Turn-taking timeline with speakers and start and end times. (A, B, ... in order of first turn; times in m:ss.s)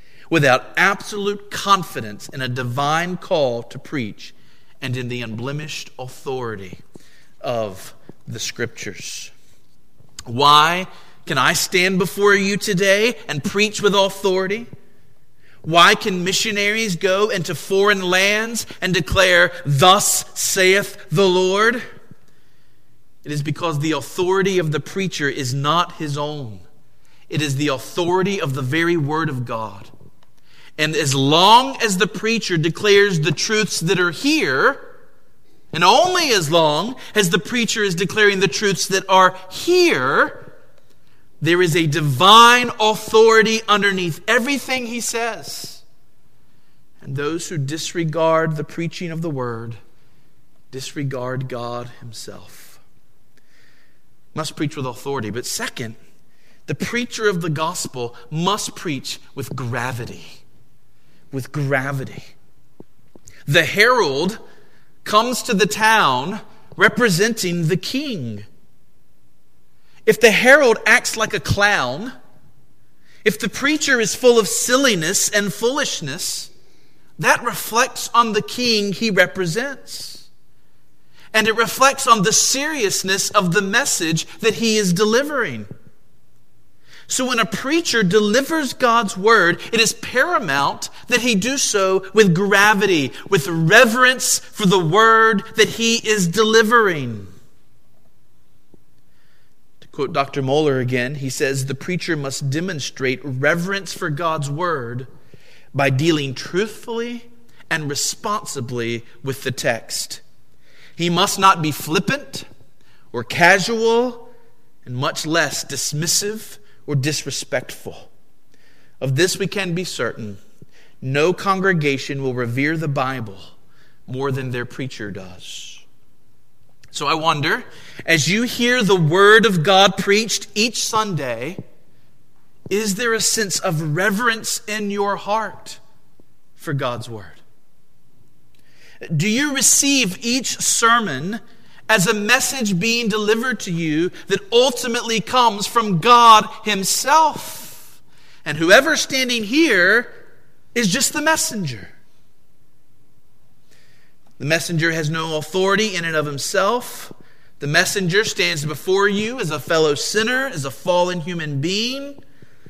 0:00.3-0:06.8 A
0:07.4-0:09.3 A
0:10.3-0:14.7 A
0:15.6-0:21.8 A
0:23.2-0:26.6 A
0:27.3-0:29.9 A
0:30.8-0:34.8 A
0:35.7-0:40.4 A
0:41.4-0:45.8 A
0:47.0-0:49.8 A
0:50.7-0:52.8 A
0:54.3-0:56.0 A
0:56.7-1:00.4 A
1:01.3-1:02.3 A
1:03.4-1:04.4 A
1:05.0-1:08.4 A
1:10.0-1:12.1 A
1:13.2-1:16.5 A
1:17.2-1:20.3 A
1:21.3-1:25.7 A
1:27.1-1:37.3 A
1:39.8-1:45.1 A
1:45.7-1:50.2 A
1:51.0-1:52.5 A
1:53.1-1:54.3 A
1:54.8-1:58.1 A
1:59.0-2:00.4 A
2:01.0-2:03.5 A
2:04.1-2:05.8 A
2:06.9-2:11.6 A
2:12.7-2:15.8 A
2:16.6-2:17.4 A
2:19.0-2:30.1 A
2:30.7-2:31.9 A
2:34.4-2:42.2 A